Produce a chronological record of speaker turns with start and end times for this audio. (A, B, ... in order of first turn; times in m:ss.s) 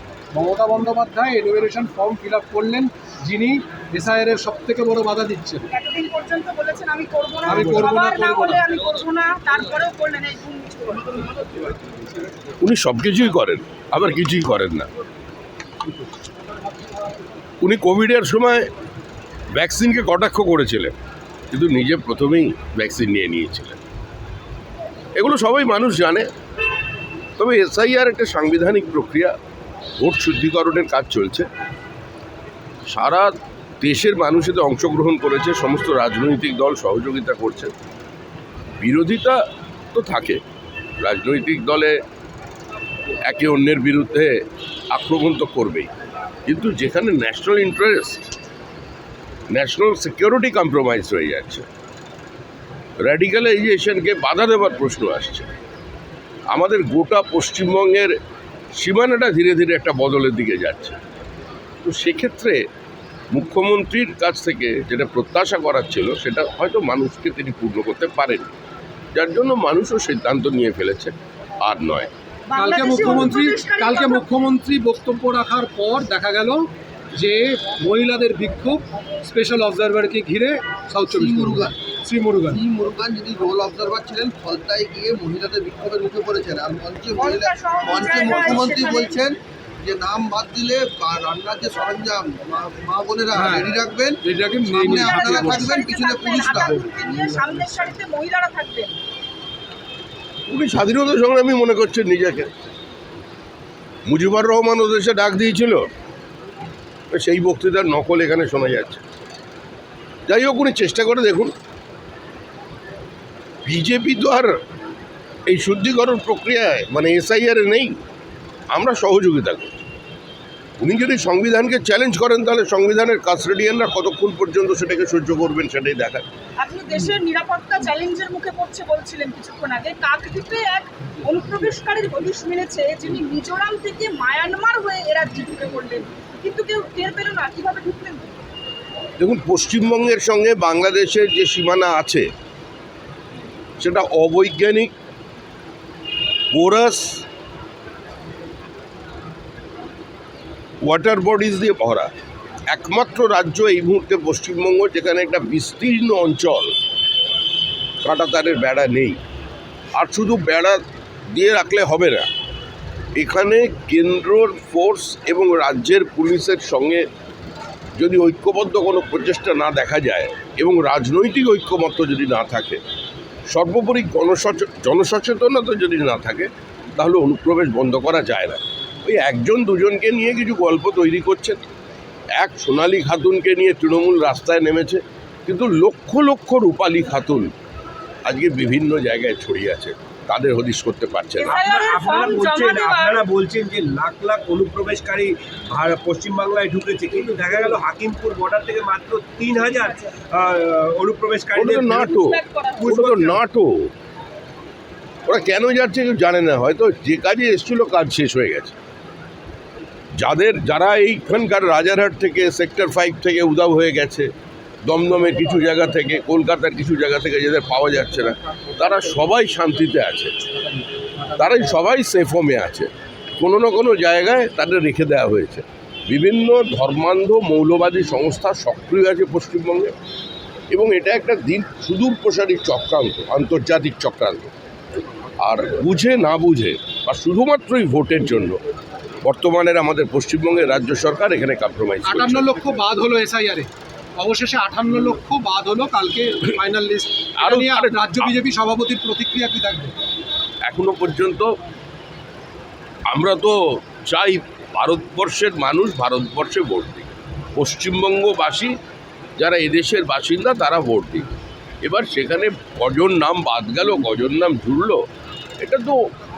0:00.3-0:05.7 A
0:05.7-0:11.2 B
0:07.4-0:08.6 A
0:12.6-0:14.9 C
0:17.6-0:18.7 C
0:19.5-0:20.9 C
0:21.5-0:23.8 C
0:25.2-0:26.3 C
0:27.4-0:29.3 C
0:30.0-0:31.5 C
0:32.9-0:37.7 C
0:38.8-0:39.4 C
0:39.9-0:40.4 C
0:41.0-0:41.9 C
0:43.2-0:44.3 C
0:44.9-0:45.9 C
0:46.4-0:48.3 C
0:49.5-0:51.6 C
0:53.0-0:55.5 C
0:56.5-0:58.1 C
0:58.8-1:01.0 C
1:01.8-1:02.6 C
1:03.3-1:08.5 C
1:09.1-1:12.1 C
1:12.5-1:14.3 B
1:12.6-1:22.6 A
1:21.1-1:21.7 D
1:22.5-1:36.8 D
1:27.1-1:29.2 B
1:33.3-1:35.8 A
1:34.8-1:38.9 B
1:40.5-1:42.5 C
1:44.0-1:45.8 C
1:47.1-1:49.0 C
1:50.3-1:51.5 C
1:53.6-1:54.5 C
1:55.5-1:57.9 C
1:58.7-1:59.8 C
2:00.8-2:06.2 C
2:06.6-2:18.4 B
2:19.2-2:22.2 C
2:23.8-2:24.9 C
2:26.5-2:27.2 C
2:30.8-2:32.1 C
2:32.7-2:36.7 C
2:38.0-2:39.2 C
2:39.9-2:42.3 C
2:43.2-2:47.0 C
2:48.0-2:52.8 C
2:53.5-3:01.6 C
3:02.4-3:07.5 C
3:08.2-3:11.6 C
3:11.4-3:13.2 B
3:11.4-3:22.2 E
3:21.5-3:23.9 C
3:22.0-3:23.0 B
3:22.8-3:23.4 E
3:25.3-3:28.8 C
3:30.2-3:34.3 C
3:34.8-3:40.3 C
3:41.3-3:49.9 C
3:50.7-3:54.5 C
3:55.4-3:58.6 C
3:59.2-4:02.5 C
4:02.0-4:09.9 A
4:07.4-4:08.3 C
4:10.6-4:11.5 C
4:13.1-4:18.7 C
4:19.4-4:21.3 C
4:21.8-4:25.0 C
4:25.6-4:26.0 C